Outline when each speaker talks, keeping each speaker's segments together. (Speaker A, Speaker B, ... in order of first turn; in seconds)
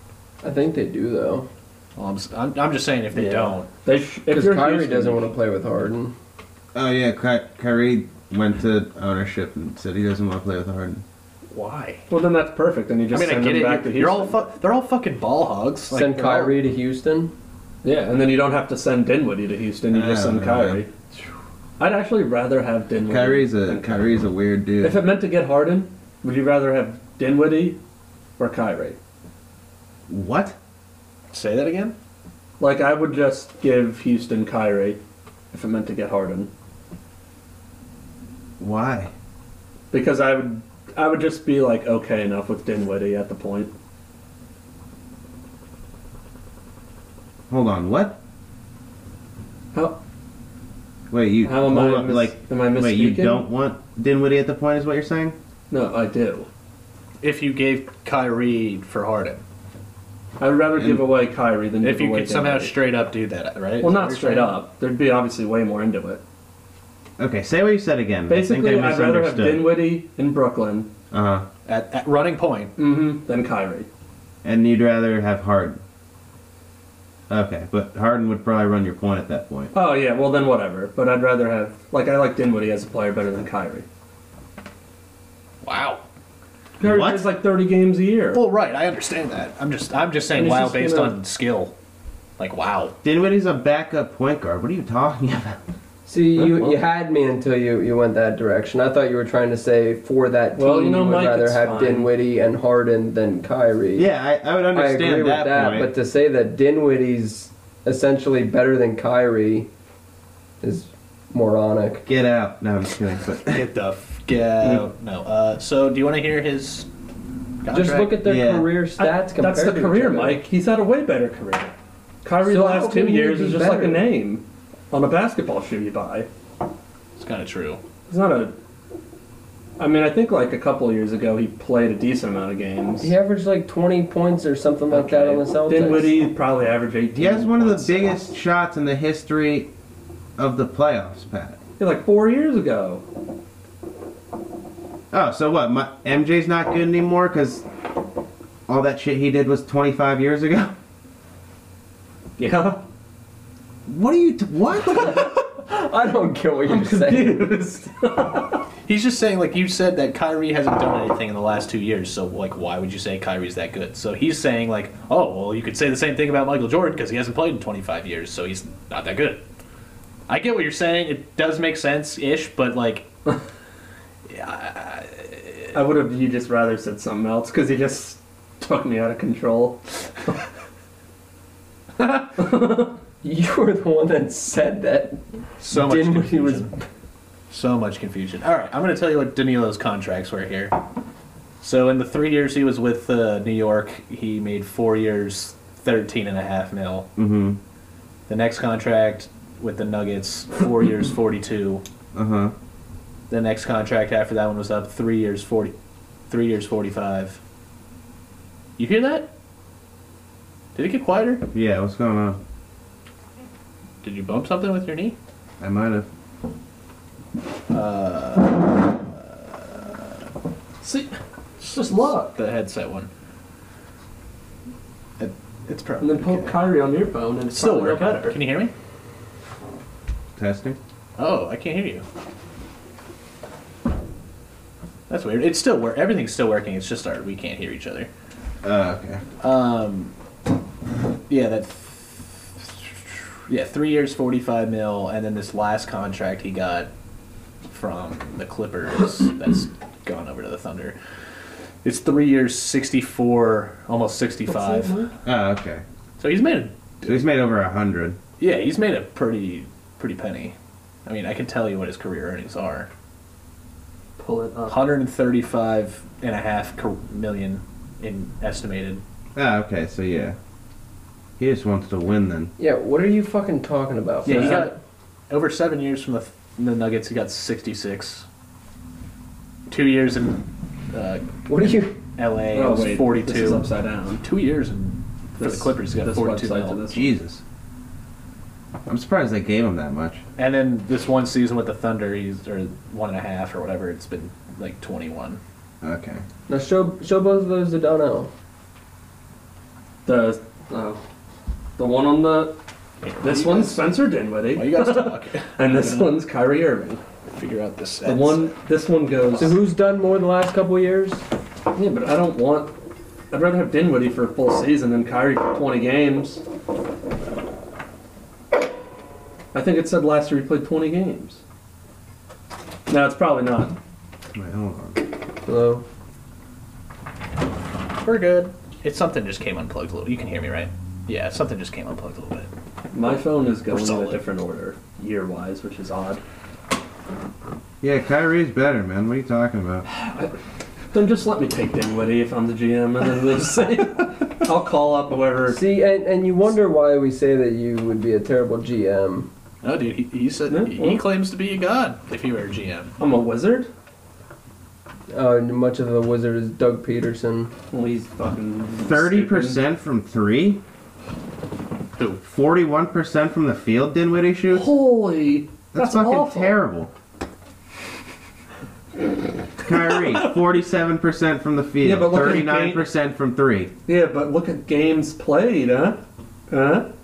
Speaker A: 0.4-1.5, 4.3-6.1, 15.9-17.3, 96.0-104.1, 104.7-109.7, 110.6-112.0, 117.7-120.4, 122.4-124.0, 133.0-136.1, 155.2-157.6, 183.2-186.8, 272.6-274.7, 281.5-281.9, 296.5-298.3, 309.4-311.2, 325.4-325.8, 345.5-349.3, 355.1-357.5
Speaker B: 1.9-3.7, 11.5-12.1, 13.1-16.6, 31.3-31.9, 57.2-59.4, 61.8-64.6, 71.7-72.7, 85.6-86.0, 88.3-91.7, 92.4-93.0, 113.5-116.9, 117.6-118.2, 127.2-127.8, 158.9-169.4, 170.3-173.1, 174.3-175.7, 185.6-186.7, 187.5-190.8, 191.6-197.1, 198.3-201.8, 203.3-205.7, 206.3-207.4, 208.8-209.3, 210.7-211.4, 214.0-215.2, 217.7-220.0, 221.9-223.1, 225.2-226.6, 227.5-228.7, 231.2-232.0, 235.1-238.1, 239.4-240.1, 241.3-246.9, 247.7-250.9, 251.8-254.9, 256.2-257.3, 258.4-262.9, 264.7-269.0, 274.2-274.8, 275.3-278.2, 279.7-283.7, 284.2-286.8, 290.4-295.4, 303.0-303.9, 304.5-306.1, 307.3-308.5, 328.0-332.5, 333.7-334.2, 349.6-352.9, 361.9-362.2
Speaker C: 3.1-5.3, 12.1-14.4, 17.8-20.9, 21.8-24.1, 24.8-27.8, 28.4-29.0, 32.6-35.0, 35.5-36.5, 39.9-43.7, 49.7-50.0, 51.4-53.4, 55.7-56.5, 60.4-62.7, 63.8-66.2, 68.3-70.9, 72.8-73.9, 79.7-83.9, 86.8-88.4, 90.3-91.2, 96.3-96.8, 100.5-102.1, 119.0-126.3, 128.1-128.5, 129.8-133.1, 134.9-138.2, 141.8-143.0, 152.4-152.8, 156.7-158.6, 175.7-180.4, 182.4-182.9, 220.8-222.3, 226.0-228.4, 254.5-255.1, 264.2-264.8, 274.2-274.7, 282.5-284.2, 285.4-287.1, 300.0-301.0, 301.8-302.5, 303.2-307.0, 308.0-309.6, 311.7-312.7, 313.3-316.4, 319.5-321.4, 322.9-323.7, 332.9-336.2, 339.9-340.3, 340.9-345.6, 350.5-351.0, 353.0-353.7, 357.7-359.6, 364.5-366.6, 369.8-370.2, 371.8-372.9, 373.9-376.9
Speaker D: 6.7-11.0, 19.9-20.8, 23.1-25.0, 30.1-30.6, 38.6-39.1, 47.5-48.2, 51.1-55.4, 60.8-61.0, 67.2-69.7, 71.1-71.5, 74.4-75.8, 77.3-79.7, 86.8-87.3, 93.0-95.6, 104.0-105.9, 112.0-113.6, 118.2-118.7, 137.1-139.7, 140.4-141.6, 145.1-147.7, 148.7-150.7, 153.9-155.3, 197.2-197.6, 202.1-202.5, 211.5-212.4, 215.6-216.1, 230.4-230.8, 238.6-239.2, 255.2-255.8, 257.0-258.2, 269.4-270.4, 271.4-272.5, 286.9-287.4, 288.9-290.2, 295.8-296.2, 324.3-325.0, 337.8-339.9, 358.8-360.6, 362.2-364.7, 365.7-366.9, 369.6-373.7